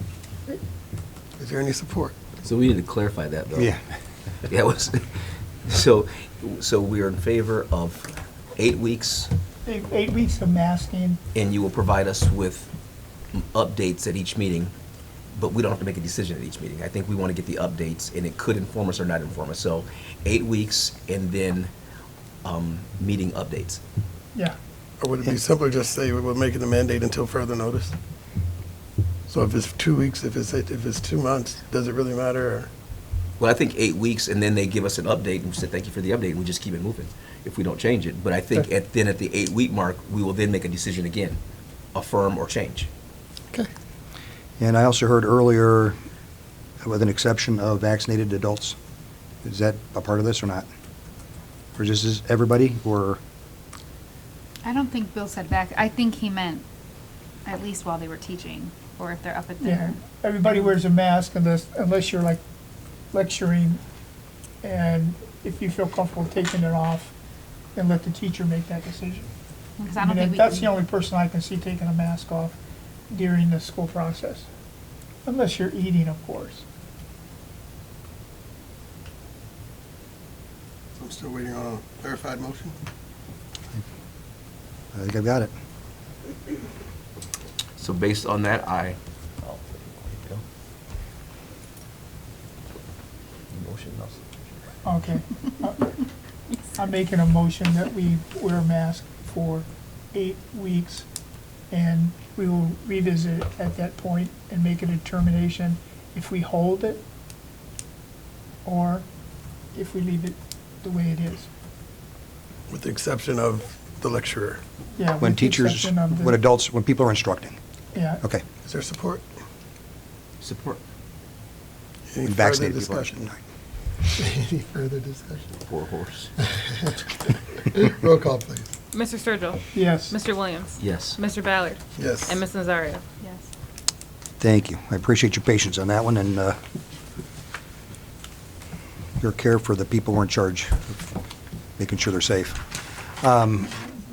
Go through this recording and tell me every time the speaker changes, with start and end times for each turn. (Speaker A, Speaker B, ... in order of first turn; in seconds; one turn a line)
Speaker A: 1.4-2.2
Speaker B: 2.4-3.8
Speaker C: 3.5-3.8
Speaker B: 4.5-5.1
Speaker B: 5.7-9.3
Speaker D: 9.7-11.2
Speaker B: 11.3-12.7
Speaker B: 13.3-14.7
Speaker B: 15.3-21.7
Speaker B: 22.4-23.8
Speaker A: 25.0-27.9
Speaker A: 29.3-32.7
Speaker B: 33.4-41.4
Speaker B: 41.9-42.9
Speaker C: 44.6-46.0
Speaker C: 46.8-48.8
Speaker C: 49.4-50.7
Speaker C: 51.8-53.2
Speaker E: 54.6-56.6
Speaker E: 57.4-59.8
Speaker D: 59.6-62.4
Speaker D: 63.1-63.8
Speaker D: 64.6-67.1
Speaker D: 67.8-69.3
Speaker E: 69.8-70.7
Speaker D: 70.0-72.6
Speaker D: 73.1-74.5
Speaker D: 75.2-76.7
Speaker A: 81.0-82.7
Speaker C: 84.9-85.5
Speaker B: 87.8-90.4
Speaker B: 93.5-94.4
Speaker D: 94.8-95.9
Speaker D: 96.8-101.1
Speaker D: 101.7-107.0
Speaker D: 108.7-109.1
Speaker D: 109.7-111.5
Speaker A: 112.7-114.6
Speaker D: 115.0-116.4
Speaker C: 115.2-117.6
Speaker D: 117.9-118.2
Speaker A: 118.7-119.2
Speaker B: 120.4-120.8
Speaker A: 122.1-123.2
Speaker C: 122.2-123.4
Speaker A: 124.2-125.5
Speaker B: 125.5-126.3
Speaker A: 126.4-128.7
Speaker F: 128.9-133.4
Speaker D: 129.7-130.2
Speaker B: 130.8-131.2
Speaker A: 132.0-132.4
Speaker C: 134.4-136.6
Speaker C: 139.2-141.0
Speaker C: 141.8-142.7
Speaker C: 143.2-143.8